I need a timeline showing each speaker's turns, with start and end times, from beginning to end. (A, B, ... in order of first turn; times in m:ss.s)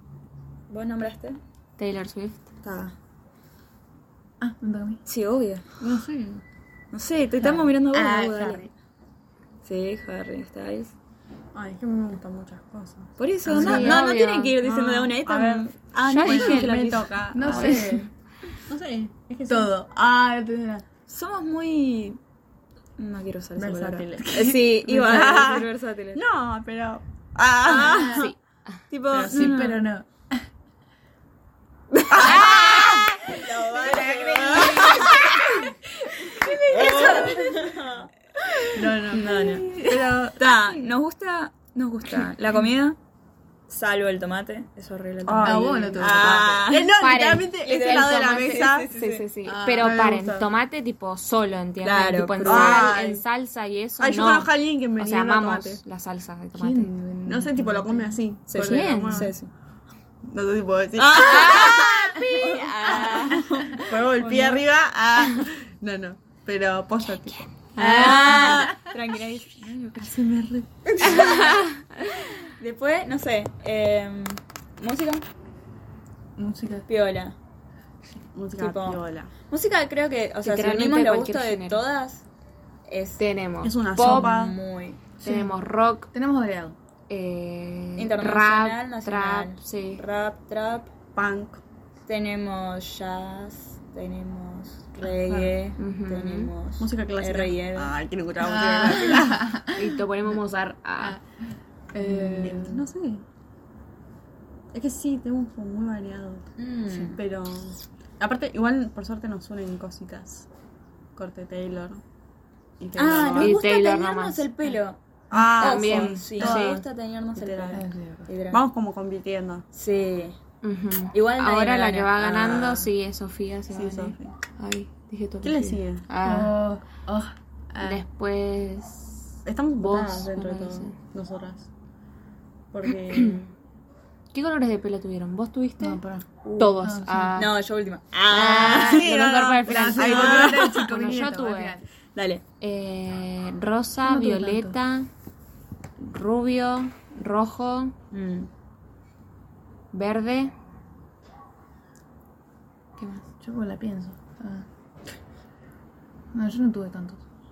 0:00.7-0:01.4 A
0:01.8-0:02.4 B
0:02.6-0:02.9 A
0:04.4-0:05.0 C
0:05.0-0:05.6 A
0:05.8-0:06.4 D
0:06.9-0:08.7 A
0:07.4-0:08.7 C
0:09.6-0:10.9 A
0:11.5-0:14.1 D
0:13.2-0:17.8 A
0:13.5-0:14.6 B
0:14.6-0:17.8 D
0:16.0-0:18.1 B
0:17.3-0:18.1 C
0:18.7-0:19.7 D
0:19.5-0:20.8 C
0:21.1-0:22.2 A
0:23.0-0:26.2 A
0:23.6-0:28.3 D
0:24.3-0:25.4 C
0:27.6-0:28.3 A
0:27.8-0:28.2 C
0:28.0-0:28.8 B
0:28.9-0:29.8 A
0:29.1-0:29.6 D
0:29.2-0:30.4 C
0:32.0-0:35.7 A
0:32.1-0:35.4 D
0:32.4-0:33.0 B
0:34.5-0:34.9 C
0:36.0-0:37.6 C
0:36.6-0:38.1 A
0:36.8-0:37.3 D
0:38.7-0:40.5 D
0:39.1-0:39.8 A
0:39.1-0:40.0 C
0:40.4-0:43.0 A
0:43.7-0:46.9 A
0:45.2-0:48.9 D
0:45.4-0:46.4 C
0:46.7-0:56.9 B
0:47.6-0:49.2 A
0:49.4-0:50.5 D
0:51.8-0:53.0 A
0:52.4-0:53.2 D
0:54.0-0:55.8 D
0:56.5-0:58.2 C
0:57.2-0:59.3 D
0:58.5-0:59.5 A
0:58.5-0:59.3 B
1:00.2-1:02.2 D
1:01.0-1:04.6 A
1:01.1-1:03.2 B
1:02.7-1:07.4 D
1:07.8-1:08.9 C
1:07.8-1:09.7 A
1:07.8-1:08.5 B
1:09.6-1:10.6 C
1:09.9-1:10.3 D
1:11.0-1:11.5 D
1:11.0-1:15.2 A
1:11.1-1:11.6 B
1:16.4-1:16.8 C
1:16.9-1:17.3 A
1:18.3-1:19.3 D
1:18.6-1:22.2 A
1:20.4-1:21.8 B
1:22.9-1:23.2 A
1:23.2-1:24.4 B
1:23.6-1:24.6 D
1:24.0-1:25.0 A
1:25.2-1:25.6 C
1:25.2-1:26.1 B
1:26.1-1:26.8 C
1:27.1-1:30.0 B
1:28.0-1:30.9 A
1:31.1-1:31.6 D
1:32.1-1:37.9 A
1:35.0-1:35.5 C
1:35.8-1:36.5 B
1:36.8-1:39.4 D
1:38.4-1:39.8 C
1:38.8-1:39.1 A
1:39.7-1:41.2 B
1:41.9-1:42.8 C
1:42.0-1:43.2 D
1:44.7-1:46.4 D
1:46.6-1:47.2 A
1:47.1-1:50.5 D
1:51.2-1:52.0 D
1:52.8-1:53.6 D
1:52.9-1:55.0 A
1:53.4-1:54.8 B
1:55.3-1:56.8 D
1:55.5-1:56.8 B
1:55.6-1:58.6 A
1:57.3-1:57.8 D
1:57.7-1:58.3 C
1:58.5-1:59.6 D
1:59.7-2:00.4 A
2:00.6-2:06.6 B
2:01.1-2:02.9 A
2:03.7-2:04.3 D
2:05.4-2:06.0 D
2:06.2-2:08.0 C
2:07.8-2:10.9 B
2:09.4-2:11.7 D
2:12.7-2:13.5 D
2:13.1-2:13.4 B
2:14.3-2:16.0 B
2:15.8-2:17.4 C
2:16.6-2:17.6 B
2:17.4-2:19.0 A
2:18.3-2:21.8 B
2:18.7-2:21.8 C
2:18.7-2:21.3 D
2:20.2-2:20.9 A
2:22.1-2:22.4 A
2:22.6-2:25.1 B
2:24.0-2:24.8 C
2:26.0-2:27.9 B
2:28.1-2:28.5 A
2:29.9-2:30.5 B
2:33.0-2:33.2 B
2:33.4-2:34.6 C
2:36.3-2:37.2 C